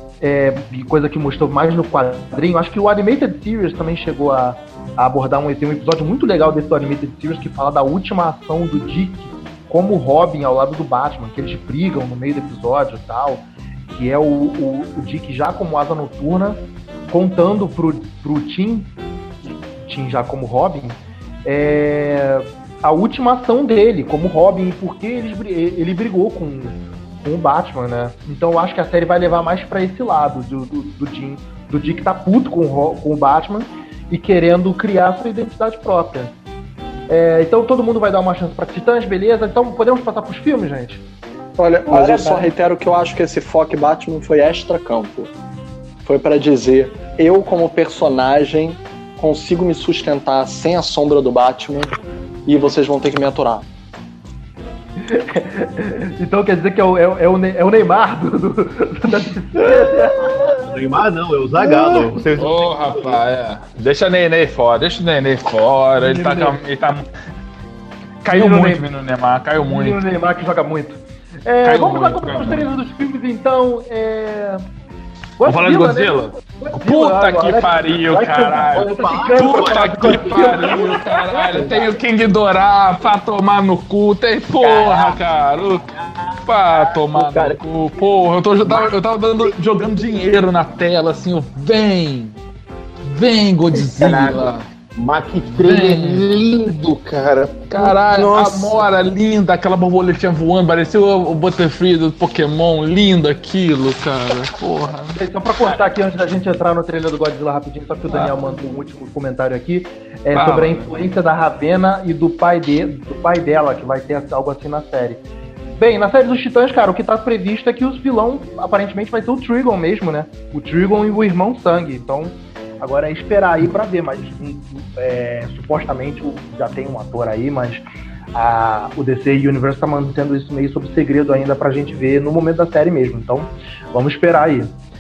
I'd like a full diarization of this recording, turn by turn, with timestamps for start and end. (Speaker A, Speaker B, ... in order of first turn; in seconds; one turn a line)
Speaker A: 0.2-18.9
Speaker A: 19.8-36.4
Speaker A: 37.1-41.0
Speaker B: 41.6-45.3
Speaker A: 41.9-42.5
Speaker B: 46.0-51.9
Speaker B: 52.5-53.7
Speaker A: 55.0-60.6
Speaker C: 59.6-63.2
Speaker A: 61.6-62.1
Speaker D: 62.4-67.1
Speaker A: 66.0-66.6
Speaker D: 68.2-70.0
Speaker A: 68.3-68.9
Speaker A: 69.6-74.7
Speaker D: 71.6-72.7
Speaker A: 75.4-81.8
Speaker D: 75.5-85.8
Speaker C: 78.7-80.8
Speaker C: 84.6-85.2
Speaker C: 85.9-87.6
Speaker D: 86.4-92.4
Speaker C: 88.6-89.6
Speaker D: 93.0-94.7
Speaker C: 94.0-97.7
Speaker D: 95.5-96.3
Speaker D: 97.7-105.2
Speaker A: 97.8-98.8
Speaker A: 105.2-115.2
Speaker C: 105.6-105.9
Speaker D: 110.3-111.1
Speaker A: 115.8-134.7